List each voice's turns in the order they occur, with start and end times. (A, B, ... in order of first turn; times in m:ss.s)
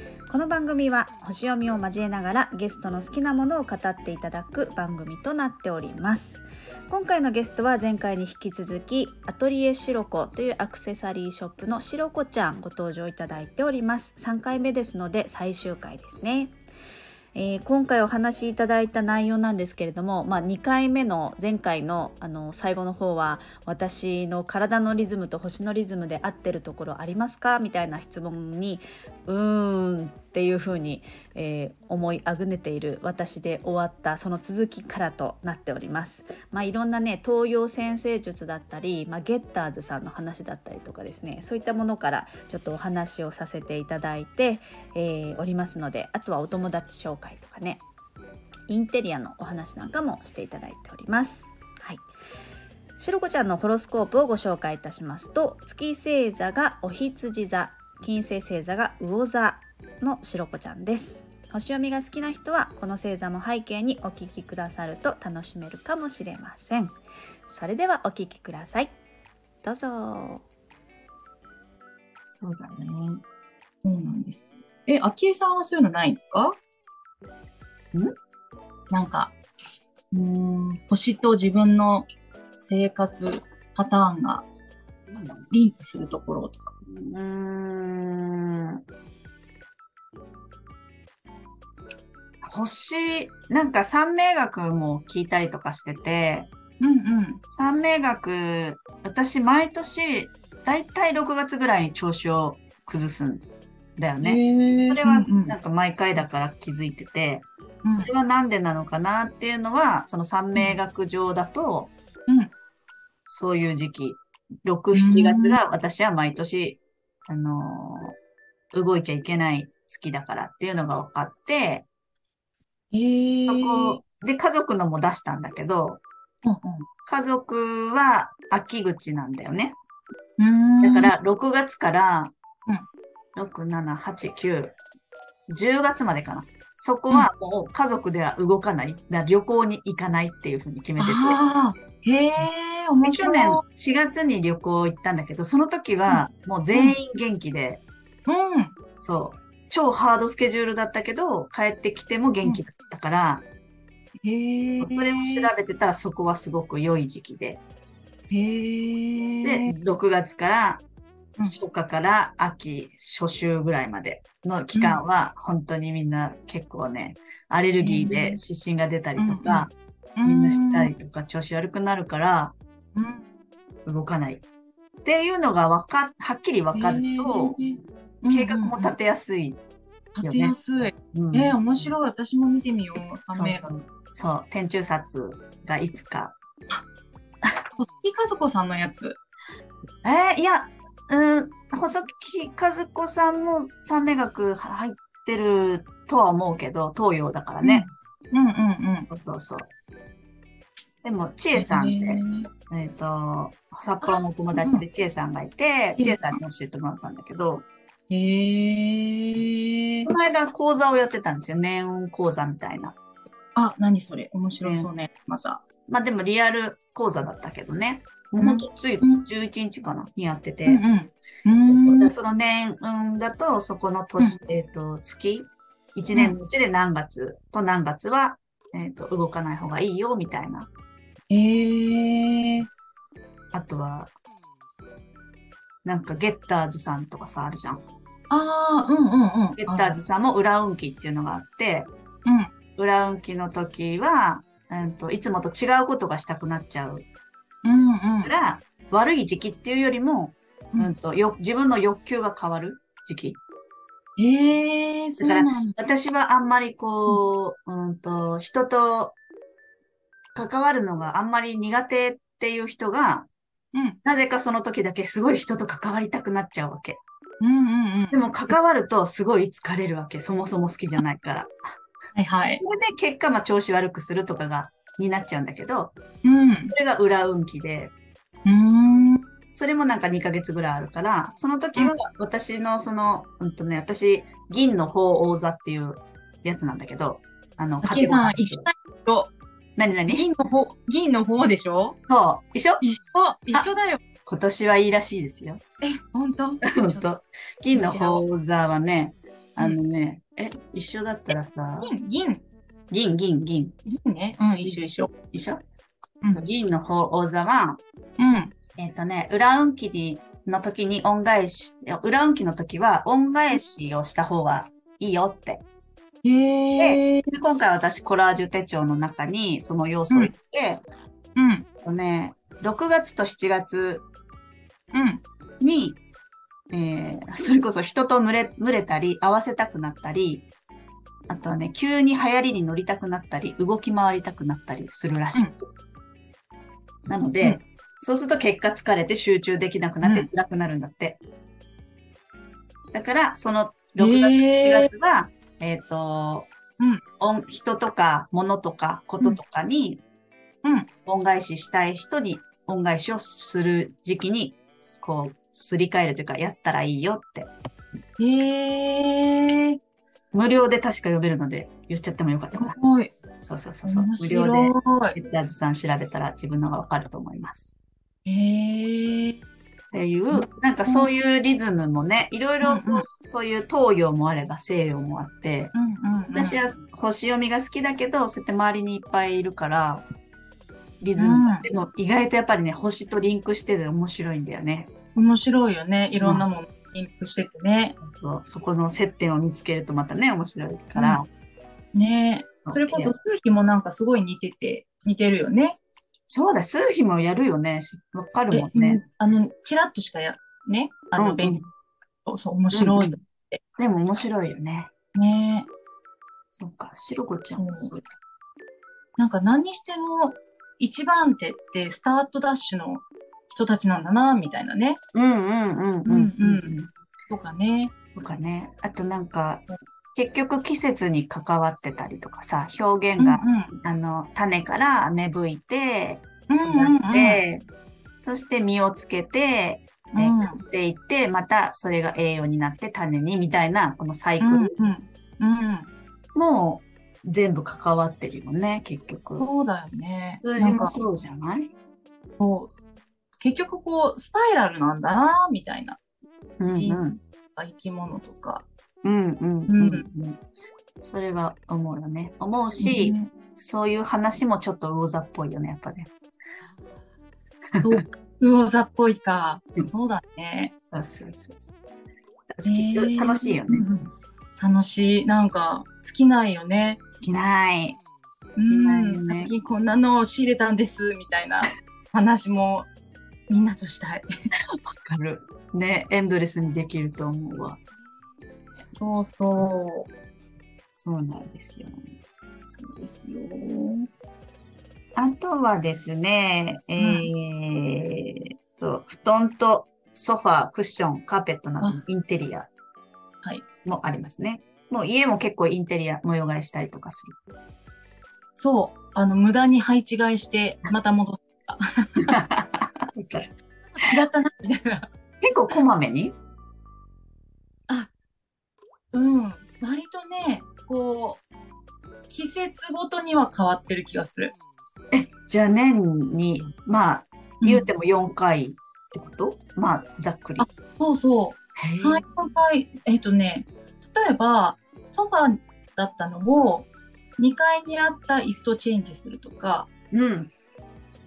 0:00.3-0:16.5 A
0:17.4-0:47.8 A
0:48.7-0:52.0 A
0:53.0-1:07.0 A
1:07.5-1:08.9 A
1:09.6-1:10.4 A
1:12.3-1:13.2 B
1:13.8-1:16.6 C
1:18.9-1:19.4 C
1:20.1-1:22.1 C
1:22.6-1:24.4 C
1:25.1-1:25.5 B
1:25.5-1:26.7 C
1:26.8-1:28.8 B
1:32.4-1:36.5 B
1:36.8-1:37.4 C
1:37.5-1:43.5 B
1:44.0-1:51.9 B
1:44.2-1:45.6 C
1:47.8-1:48.1 C
1:52.3-1:52.5 C
1:53.3-1:58.2 B
1:54.9-1:55.6 C
1:58.7-2:01.9 B
2:02.9-2:04.0 C
2:03.5-2:06.0 B
2:06.4-2:06.9 C
2:07.1-2:09.8 B
2:10.4-2:11.1 C
2:10.8-2:12.3 B
2:13.4-2:14.8 B
2:15.5-2:21.4 B
2:21.0-2:23.6 C
2:23.0-2:27.8 B
2:26.1-2:27.0 C
2:28.3-2:28.8 C
2:29.0-2:33.4 B
2:34.2-2:35.5 C
2:34.2-2:37.6 B
2:38.3-2:39.7 C
2:39.4-2:40.8 B
2:41.4-2:49.7 B
2:44.7-2:45.0 C
2:47.8-2:48.4 C
2:49.2-2:50.9 C
2:50.2-2:52.6 B
2:53.0-2:53.2 C
2:53.9-2:54.4 B
2:55.0-2:57.6 B
2:56.7-2:58.9 C
2:58.3-2:59.6 B
3:00.2-3:03.8 C
3:00.2-3:01.9 B
3:03.4-3:06.4 B
3:07.8-3:09.2 C
3:10.0-3:17.9 B
3:17.6-3:19.1 C
3:19.1-3:19.7 B
3:21.0-3:27.7 B
3:21.6-3:22.5 C
3:24.0-3:24.8 C
3:26.0-3:26.4 C
3:28.1-3:30.1 C
3:30.1-3:33.0 B
3:33.6-3:35.6 C
3:34.6-3:34.9 B
3:35.9-3:40.8 B
3:38.4-3:39.3 C
3:40.7-3:42.1 C
3:41.6-3:50.7 B
3:51.3-3:52.7 C
3:53.5-3:54.1 B
3:55.8-3:57.8 B
3:58.3-4:00.0 C
3:59.6-4:01.9 B
4:02.2-4:02.5 C
4:02.8-4:07.1 B
4:07.6-4:08.3 C
4:08.2-4:13.4 B
4:14.2-4:15.8 C
4:15.2-4:19.2 B
4:20.4-4:23.3 B
4:24.0-4:27.0 B
4:27.4-4:28.5 C
4:28.1-4:31.5 B
4:32.2-4:32.6 C
4:32.6-4:35.9 B
4:36.2-4:36.8 C
4:36.7-4:37.9 B
4:38.5-4:39.2 C
4:39.6-4:48.7 B
4:47.8-4:49.3 C
4:49.8-4:50.3 B
4:50.1-4:52.0 C
4:52.1-4:52.8 B
4:52.8-4:54.0 C
4:54.3-4:55.6 B
4:55.8-4:57.0 C
4:56.6-5:01.9 B
4:57.7-4:58.2 C
5:01.8-5:02.4 C
5:02.9-5:03.8 B
5:03.9-5:05.1 C
5:04.6-5:05.6 B
5:06.3-5:07.8 B
5:08.2-5:08.5 C
5:08.8-5:15.6 B
5:16.2-5:17.3 C
5:16.8-5:20.8 B
5:21.4-5:21.7 C
5:21.8-5:24.1 B
5:24.9-5:25.2 C
5:25.6-5:26.0 B
5:26.7-5:30.5 B
5:31.3-5:35.6 B
5:37.1-5:41.2 B
5:40.0-5:40.3 C
5:42.9-5:46.5 B
5:44.0-5:44.9 C
5:47.2-5:50.0 B
5:51.1-5:57.5 B
5:58.2-5:59.8 C
6:00.3-6:02.8 B
6:02.6-6:03.1 C
6:03.4-6:07.8 B
6:03.8-6:05.2 C
6:08.3-6:09.4 C
6:09.9-6:15.7 B
6:10.3-6:11.1 C
6:12.6-6:13.1 C
6:15.7-6:16.6 C
6:16.3-6:20.0 B
6:21.0-6:24.9 B
6:21.2-6:21.7 C
6:25.2-6:28.0 C
6:26.2-6:26.4 B
6:28.0-6:31.3 B
6:31.0-6:31.2 C
6:31.9-6:35.8 C
6:32.7-6:33.1 B
6:36.3-6:39.0 B
6:38.5-6:41.6 C
6:41.2-6:41.7 B
6:42.3-6:43.6 C
6:42.7-6:43.2 B
6:43.8-6:44.9 B
6:45.2-6:45.7 C
6:46.5-6:48.1 B
6:47.6-6:47.9 C
6:49.2-6:55.0 C
6:55.1-6:56.9 B
6:56.0-6:56.8 C
6:57.3-6:57.9 C
6:58.2-7:07.6 B
7:03.2-7:03.7 C
7:06.5-7:07.4 C
7:08.2-7:14.7 B
7:10.1-7:10.6 C
7:14.4-7:15.9 C
7:16.4-7:19.5 B
7:19.4-7:21.0 C
7:20.4-7:21.7 B
7:22.4-7:22.7 C
7:23.4-7:26.0 C
7:26.6-7:27.2 B
7:26.7-7:27.0 C
7:27.6-7:28.7 C
7:29.0-7:30.4 B
7:29.7-7:30.1 C
7:31.0-7:36.1 B
7:32.8-7:33.3 C
7:37.8-7:38.0 B
7:37.8-7:40.7 C
7:40.9-7:41.8 B
7:42.5-7:43.9 B
7:42.6-7:47.0 C
7:47.2-7:48.0 B
7:48.6-7:52.9 C
7:48.7-7:49.5 B
7:53.5-7:54.3 C
7:54.8-7:57.8 B
7:58.9-8:00.1 C
8:01.0-8:02.0 B
8:02.7-8:04.1 C
8:05.2-8:12.7 B
8:07.0-8:07.3 C
8:13.8-8:17.4 B
8:18.6-8:22.4 C
8:22.3-8:23.5 B
8:23.9-8:25.1 C
8:25.4-8:26.4 B
8:29.1-8:31.4 C
8:32.3-8:34.5 C
8:35.1-8:40.7 B
8:37.6-8:37.9 C
8:40.6-8:49.9 C
8:41.8-8:42.2 B
8:50.1-8:50.5 B